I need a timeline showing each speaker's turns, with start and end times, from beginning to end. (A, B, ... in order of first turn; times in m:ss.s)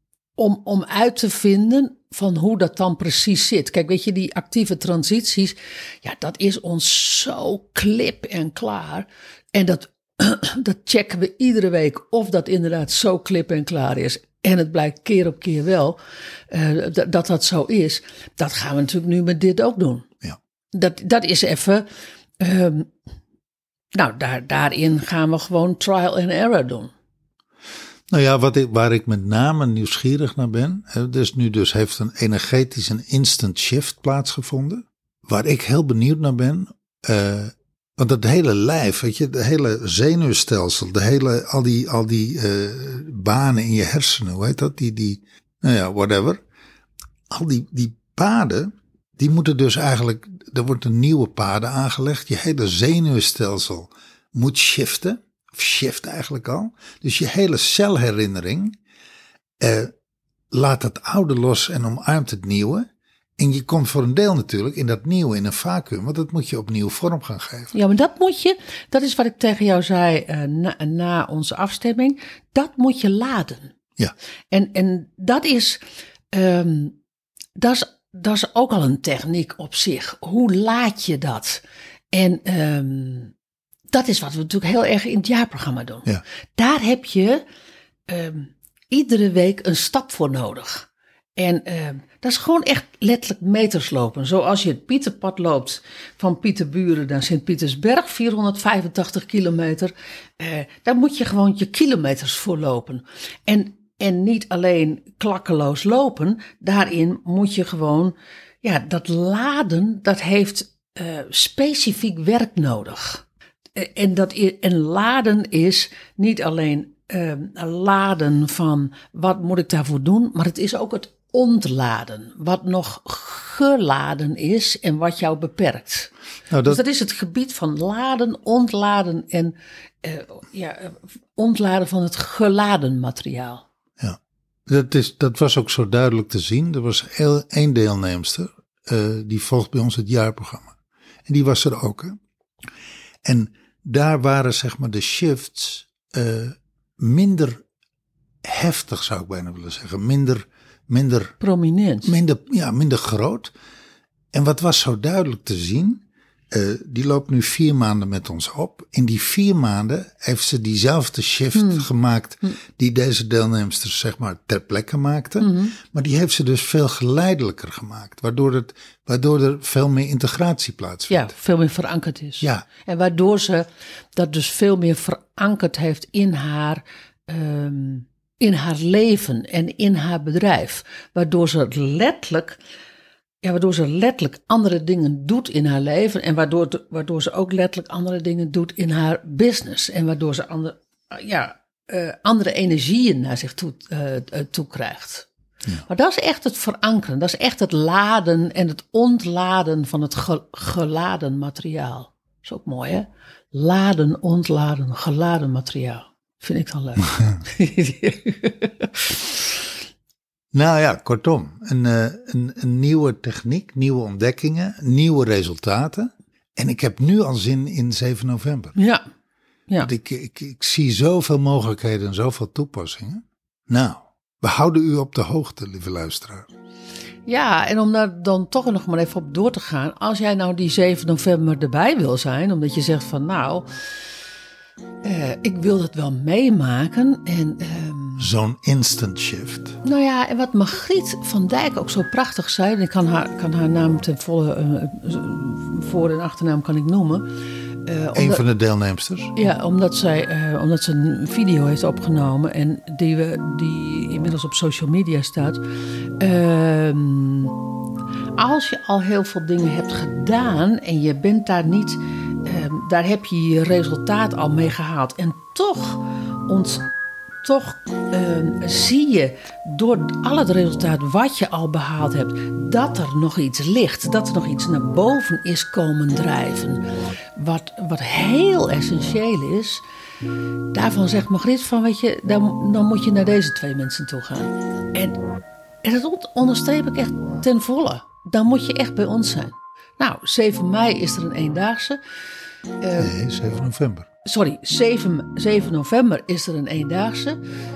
0:00.4-0:16.0 A
0:16.5-0:20.1 A
0:20.7-0:21.8 A
0:22.4-0:22.9 A
0:23.9-0:26.9 A
0:28.1-0:46.4 B
0:47.3-0:58.8 B
0:59.6-0:59.9 B
1:00.5-1:07.7 B
1:07.7-1:13.7 A
1:14.5-1:15.8 A
1:16.3-1:17.0 A
1:17.6-1:23.3 A
1:23.9-1:27.4 A
1:28.1-1:53.2 A
1:53.7-2:06.1 A
2:06.5-2:06.8 B
2:06.6-2:13.6 A
2:14.0-2:20.8 B
2:21.3-2:22.2 B
2:23.2-2:27.6 B
2:28.4-2:31.4 B
2:31.4-2:32.1 A
2:32.0-2:33.5 B
2:34.3-2:51.3 B
2:41.5-2:41.8 A
2:45.4-2:45.7 A
2:51.1-3:02.6 A
2:52.4-2:52.7 B
3:03.4-3:15.3 A
3:15.9-3:29.5 A
3:30.5-3:38.8 B
3:38.8-3:39.0 A
3:39.8-3:46.5 B
3:47.2-3:53.7 A
3:55.0-3:58.3 A
3:58.2-3:59.8 B
3:59.8-4:07.3 A
4:07.8-4:08.4 A
4:08.1-4:09.3 B
4:09.3-4:15.6 A
4:16.2-4:17.6 A
4:18.4-4:26.9 A
4:27.4-4:39.8 A
4:40.7-4:45.2 A
4:45.8-4:52.0 A
4:52.8-4:53.1 A
4:53.0-4:54.1 B
4:54.2-4:57.4 A